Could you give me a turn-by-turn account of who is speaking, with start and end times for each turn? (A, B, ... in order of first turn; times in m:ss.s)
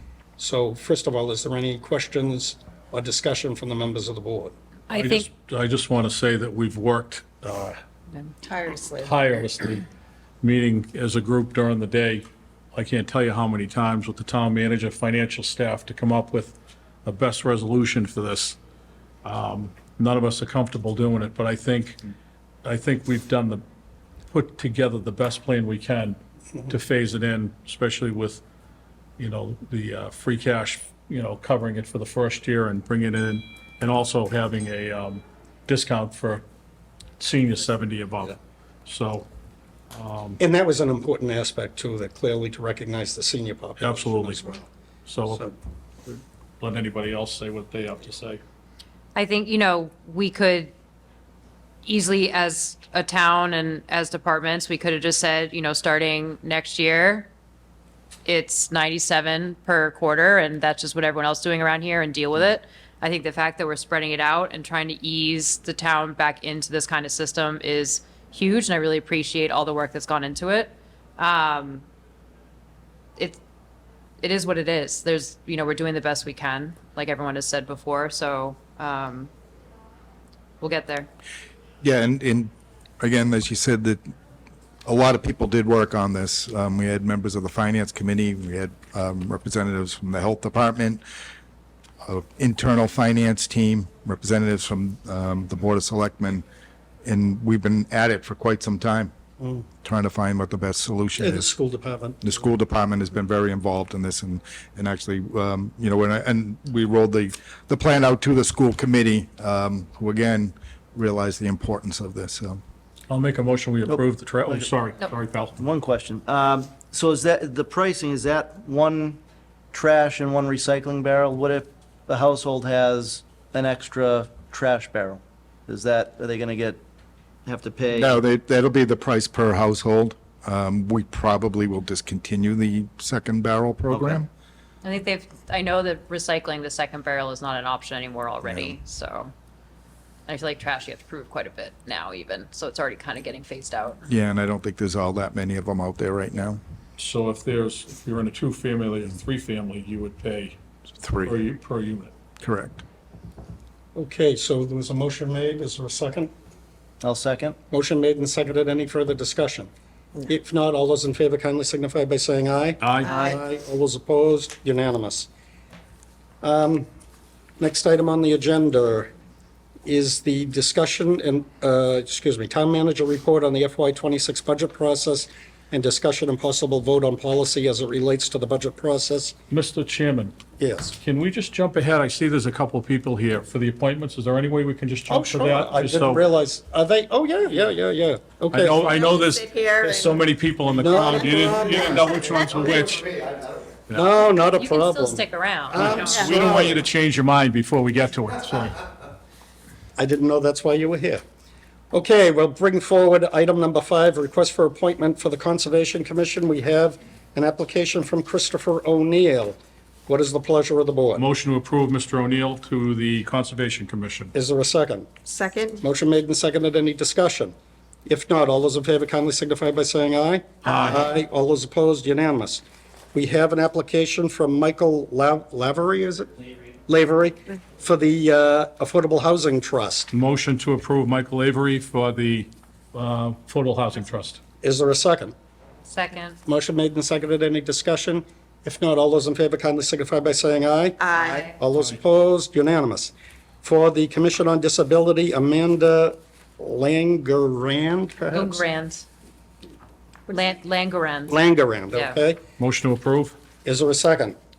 0:00.4-0:04.5 A
0:04.9-0:05.3 B
0:04.9-0:07.8 C
0:08.5-0:09.1 D
0:09.0-0:09.8 C
0:10.4-0:18.6 C
0:19.2-0:22.0 C
0:22.6-0:23.6 C
0:24.3-0:28.4 C
0:29.2-0:36.4 C
0:37.2-0:39.3 C
0:39.9-0:40.4 C
0:40.4-0:44.7 A
0:43.8-0:44.5 C
0:45.1-0:45.5 C
0:46.6-0:48.4 C
0:49.2-0:50.7 B
0:51.9-0:57.3 B
0:58.3-1:11.8 B
1:14.2-1:19.3 B
1:20.6-1:21.1 B
1:21.8-1:24.0 E
1:24.8-1:31.0 E
1:32.0-1:36.4 E
1:37.0-1:39.1 E
1:39.4-1:39.7 A
1:39.8-1:41.5 E
1:41.2-1:42.3 A
1:42.2-1:52.6 E
1:53.1-1:55.6 C
1:53.9-1:54.7 F
1:55.6-1:59.2 F
1:59.7-2:06.8 F
2:07.4-2:08.2 F
2:08.0-2:14.3 E
2:13.9-2:14.2 F
2:14.8-2:19.3 B
2:18.4-2:18.8 E
2:20.3-2:24.0 B
2:24.1-2:26.6 E
2:27.0-2:30.6 C
2:31.0-2:31.4 E
2:31.2-2:32.1 C
2:32.4-2:32.8 E
2:34.0-2:36.3 A
2:37.0-2:37.6 F
2:37.7-2:39.7 A
2:40.2-2:45.3 A
2:42.8-2:43.2 C
2:43.1-2:43.3 D
2:46.4-2:46.9 A
2:47.6-2:49.1 A
2:49.9-2:59.4 A
2:59.5-3:00.4 C
3:00.6-3:01.0 A
3:01.0-3:06.2 C
3:05.1-3:08.9 A
3:08.5-3:13.2 C
3:08.9-3:10.2 D
3:10.8-3:12.0 A
3:13.9-3:16.8 A
3:14.6-3:16.3 B
3:16.0-3:18.8 C
3:20.0-3:21.2 A
3:21.9-3:31.2 A
3:31.2-3:34.3 C
3:34.3-3:35.1 A
3:35.3-3:35.8 D
3:35.8-3:37.5 A
3:38.1-3:42.6 A
3:40.6-3:41.0 C
3:43.1-3:46.3 A
3:46.9-3:50.1 A
3:50.1-3:54.4 C
3:54.6-3:55.3 A
3:55.8-3:56.4 B
3:56.5-4:08.7 A
4:01.0-4:01.4 D
4:08.3-4:09.0 B
4:10.3-4:11.4 B
4:11.3-4:12.4 A
4:11.9-4:12.2 B
4:12.6-4:13.4 C
4:13.6-4:14.4 A